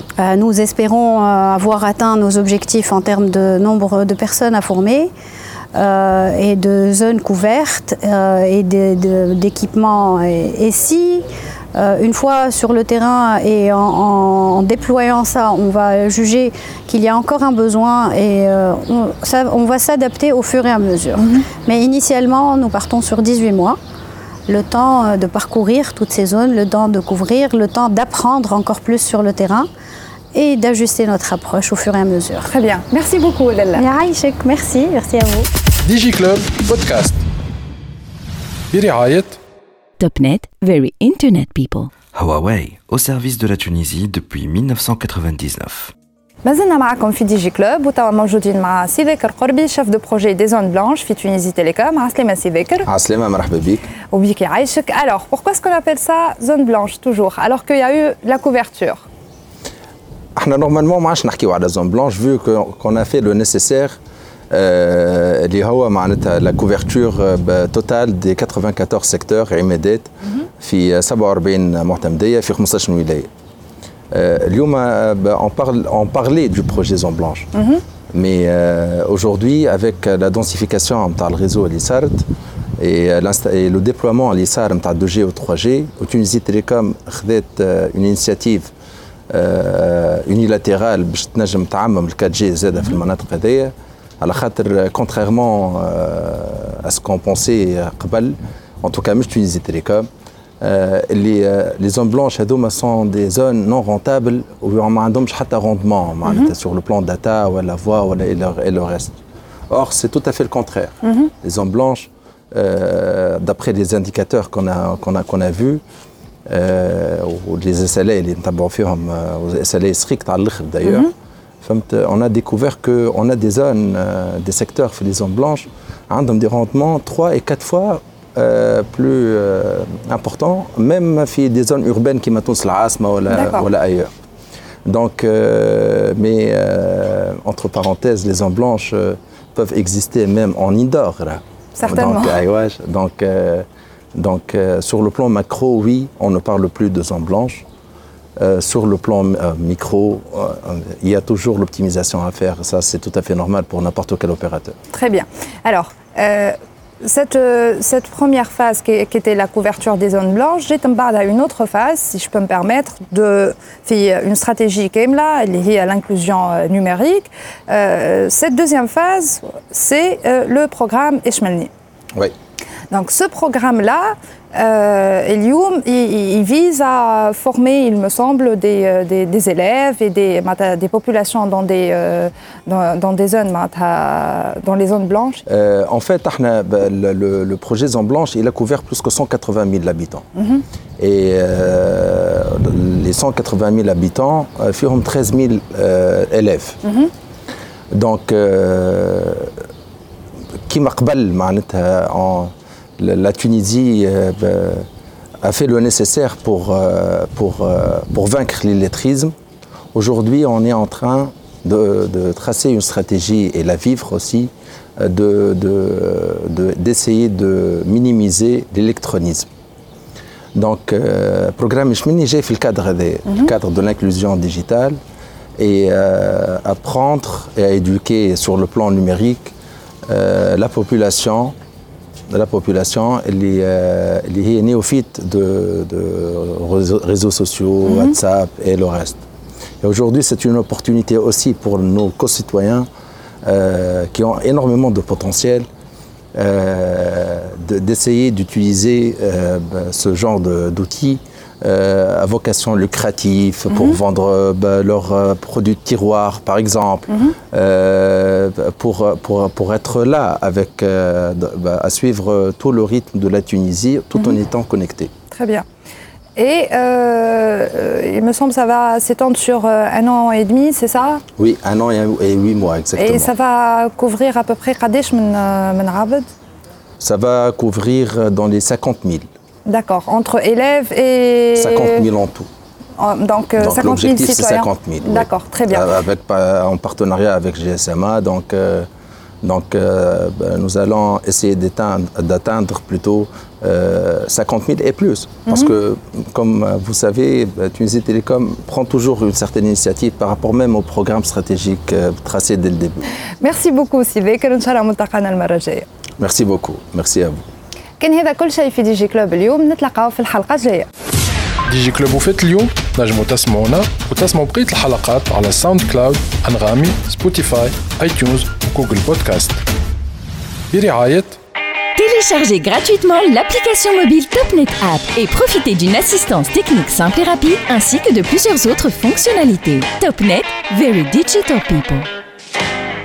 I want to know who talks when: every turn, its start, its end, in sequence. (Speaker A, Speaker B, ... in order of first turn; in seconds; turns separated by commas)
Speaker A: 0.2-5.1, Speaker A: 5.7-23.8, Speaker B: 21.2-21.5, Speaker A: 24.5-29.7, Speaker A: 30.3-32.5, Speaker B: 32.5-33.8, Speaker A: 33.8-35.5, Speaker C: 35.8-37.2, Speaker C: 38.7-39.4, Speaker D: 40.0-41.9, Speaker E: 42.1-45.9, Speaker B: 46.5-52.9, Speaker F: 52.9-53.8, Speaker B: 54.1-59.0, Speaker F: 60.4-64.0, Speaker F: 64.5-73.3, Speaker F: 74.1-77.5, Speaker B: 77.5-77.8, Speaker F: 78.1-82.2, Speaker F: 82.8-88.7, Speaker F: 89.3-100.1, Speaker F: 100.6-109.2, Speaker B: 106.2-106.5, Speaker F: 109.7-115.8, Speaker B: 111.0-111.3, Speaker F: 116.5-121.1, Speaker B: 120.8-121.1, Speaker F: 121.6-134.1, Speaker B: 133.3-133.7, Speaker F: 134.9-147.7, Speaker B: 141.8-142.4, Speaker F: 148.4-154.8, Speaker B: 154.9-171.7, Speaker B: 172.9-185.4, Speaker F: 185.5-190.3, Speaker B: 190.4-190.6, Speaker F: 191.0-196.8, Speaker B: 196.8-197.1, Speaker F: 197.9-199.5, Speaker F: 200.7-204.9, Speaker F: 205.4-209.3, Speaker F: 209.9-219.5, Speaker F: 220.6-225.0, Speaker B: 223.3-223.5, Speaker F: 225.6-229.5, Speaker F: 230.1-231.6, Speaker F: 232.3-239.2, Speaker B: 237.8-238.2, Speaker F: 239.8-242.9, Speaker F: 243.4-245.7, Speaker F: 246.3-265.1, Speaker B: 253.7-254.0, Speaker B: 265.3-265.6, Speaker B: 266.4-271.2, Speaker F: 271.4-273.3, Speaker B: 273.0-276.3, Speaker F: 277.0-279.3, Speaker B: 279.7-282.1, Speaker F: 281.6-282.5, Speaker B: 283.0-285.9, Speaker F: 283.6-288.9, Speaker F: 289.4-303.0, Speaker B: 295.5-295.7, Speaker B: 303.4-305.9, Speaker F: 306.2-307.4, Speaker B: 308.0-310.9, Speaker C: 311.7-319.6, Speaker C: 320.7-321.4, Speaker D: 322.0-332.1